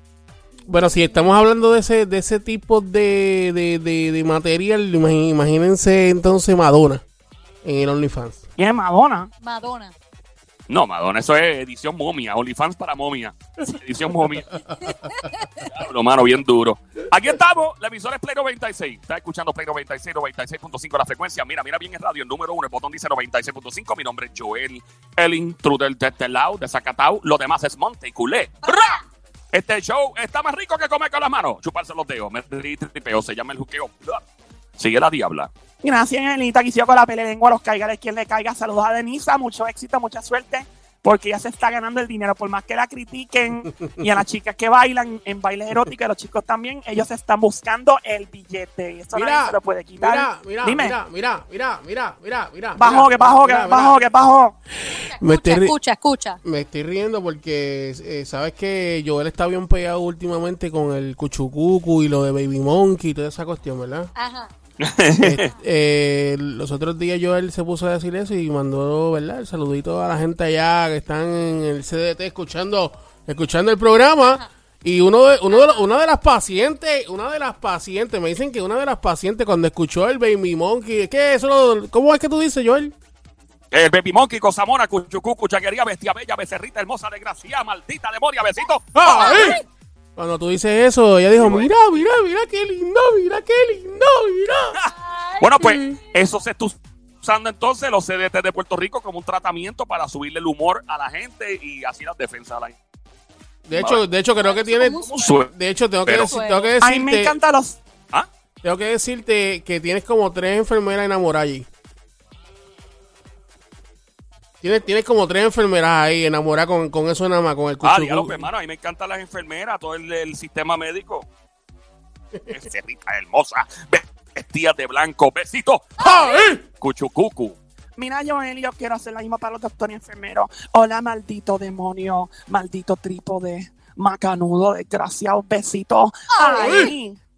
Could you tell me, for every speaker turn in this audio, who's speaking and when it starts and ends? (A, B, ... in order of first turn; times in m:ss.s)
0:00.6-0:07.0 A
0:00.7-0:01.3 B
0:07.6-0:08.4 A
0:08.6-0:09.3 C
0:09.4-0:09.9 B
0:10.7-0:14.5 D
0:14.6-0:15.0 A
0:14.8-0:15.8 B
0:15.7-0:29.0 D
0:28.6-0:29.0 B
0:29.5-0:34.2 D
0:34.8-0:35.5 D
0:35.8-0:51.0 C
0:43.8-0:44.2 A
0:49.1-0:54.0 A
0:52.8-0:54.6 C
0:54.8-0:56.4 B
0:55.2-0:55.8 A
0:56.4-1:04.1 A
1:04.2-1:04.5 B
1:04.8-1:05.5 D
1:05.2-1:23.0 A
1:15.5-1:15.8 B
1:23.7-1:29.5 D
1:29.0-1:29.6 A
1:29.0-1:29.6 B
1:30.2-1:34.8 A
1:31.3-1:31.7 D
1:34.8-1:42.8 D
1:34.9-1:36.1 B
1:35.6-1:36.0 A
1:43.7-1:47.4 A
1:43.7-1:44.0 D
1:44.4-1:45.4 B
1:45.1-1:45.5 D
1:46.0-1:46.3 D
1:46.2-1:46.8 B
1:46.8-1:47.8 C
1:48.6-1:51.7 A
1:54.6-1:58.5 A
1:57.8-2:01.3 D
2:02.5-2:06.2 D
2:06.0-2:06.6 A
2:06.0-2:06.5 B
2:06.8-2:07.6 D
2:08.0-2:17.2 C
2:16.4-2:16.9 B